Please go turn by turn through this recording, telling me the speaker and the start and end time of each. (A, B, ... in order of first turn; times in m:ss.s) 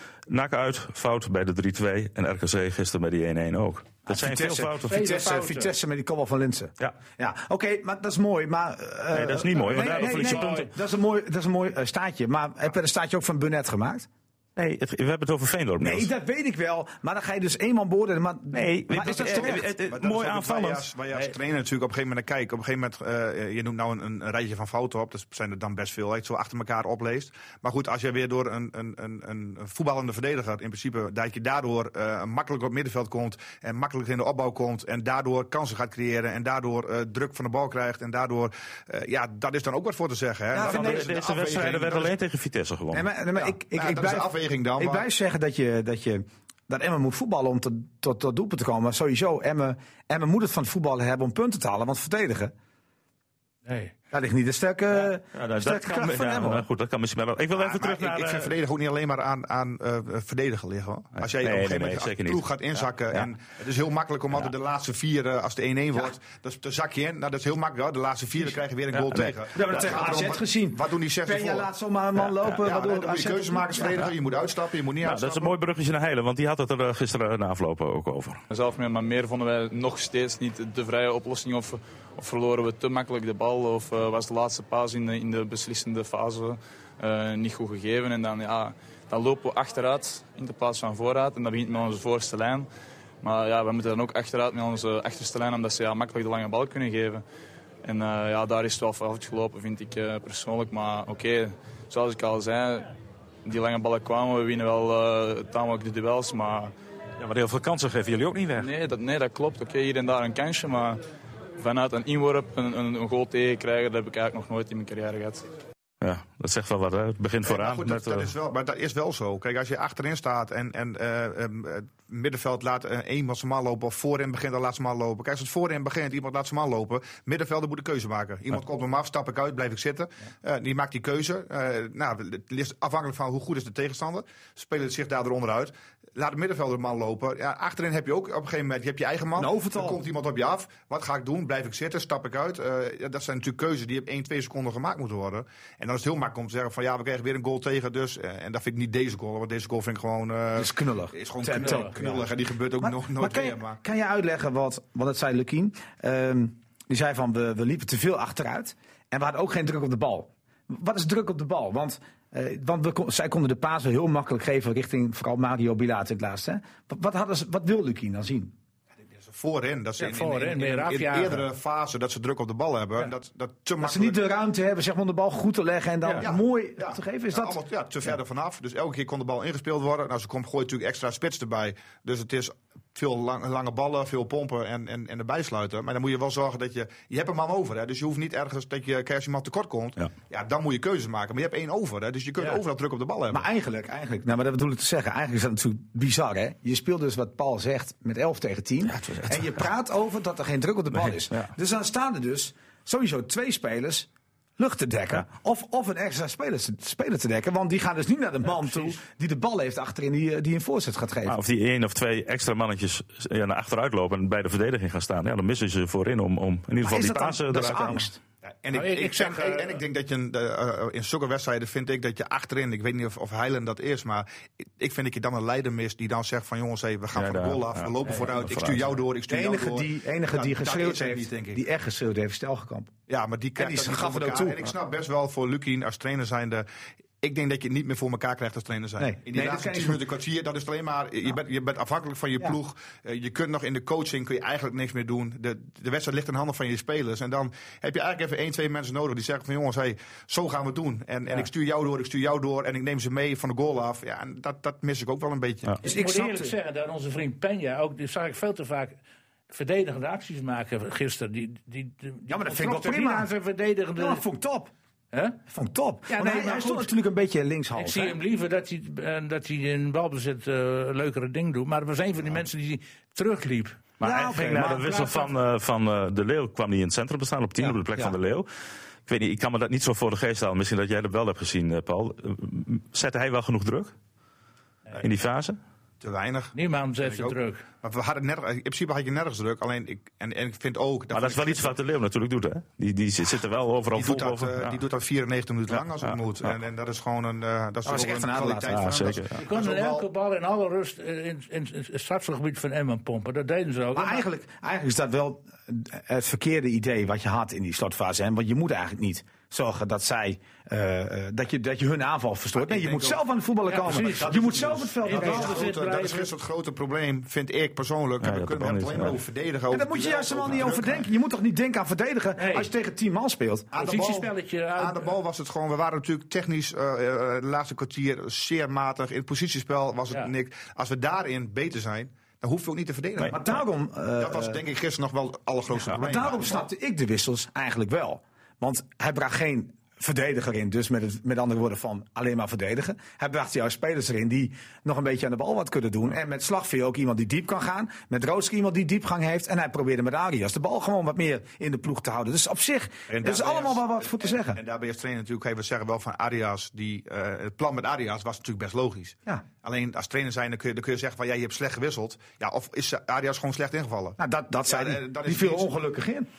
0:00.3-0:05.0 A
0:04.0-0:14.1 B
0:04.8-0:05.7 C
0:09.1-0:10.7 A
0:09.7-0:10.7 C
0:14.6-0:16.1 A
0:15.8-0:19.7 B
0:18.5-0:20.9 A
0:19.1-0:42.1 D
0:40.5-0:41.1 B
0:40.6-0:43.1 A
0:42.9-0:52.5 B
0:43.4-0:45.1 D
0:53.6-0:53.9 C
0:54.1-0:56.6 B
0:55.0-0:58.5 A
0:57.6-1:11.7 D
1:01.2-1:03.3 A
1:08.9-1:09.8 A
1:09.5-1:14.0 B
1:12.6-1:15.5 D
1:15.0-1:18.4 A
1:18.5-1:32.7 E
1:33.2-1:37.2 E
1:37.8-1:42.9 E
1:43.4-1:46.7 E
1:47.2-1:48.7 A
1:48.6-1:51.0 E
1:51.6-1:55.4 E
1:56.0-1:58.3 A
1:57.4-2:33.8 D
2:19.4-2:20.0 B
2:30.5-2:32.3 B
2:31.6-2:31.9 C
2:32.8-2:48.5 B
2:49.1-2:54.2 D
2:50.0-2:51.4 C
2:53.8-2:57.6 B
2:56.2-3:13.4 D
3:13.3-3:31.4 B
3:18.9-3:19.6 A
3:20.9-3:21.5 A
3:31.2-3:38.1 A
3:36.8-3:38.2 B
3:38.5-3:44.3 D
3:38.7-3:39.8 C
3:44.8-3:51.6 D
3:47.1-3:49.0 A
3:49.3-3:52.9 B
3:53.1-3:56.6 D
3:53.6-3:54.7 B
3:57.2-4:15.7 D
3:59.0-4:00.0 B
4:15.8-4:16.6 B
4:15.8-4:19.0 C
4:19.5-4:24.2 C
4:22.3-4:23.3 B
4:24.0-4:24.7 B
4:25.1-4:25.4 C
4:25.5-4:28.2 B
4:26.1-4:26.9 C
4:27.7-4:35.3 C
4:34.0-4:38.5 A
4:34.0-4:34.9 B
4:37.6-4:38.2 B
4:39.1-4:43.9 A
4:45.0-4:45.6 A
4:46.0-4:51.7 D
4:46.5-4:47.6 C
4:51.1-4:54.8 A
4:53.9-5:00.0 D
4:55.7-4:56.5 A
4:57.8-4:59.1 B
4:58.7-4:59.3 A
4:59.4-5:04.2 C
5:03.9-5:15.7 B
5:12.6-5:13.2 D
5:13.7-5:16.3 C
5:13.9-5:21.1 D
5:18.2-5:19.2 A
5:19.7-5:23.7 B
5:22.4-5:22.7 C
5:23.7-5:33.6 D
5:23.7-5:25.1 C
5:33.3-5:34.6 B
5:34.2-5:36.6 D
5:35.9-5:54.6 B
5:53.1-6:05.7 D
6:04.2-6:06.3 B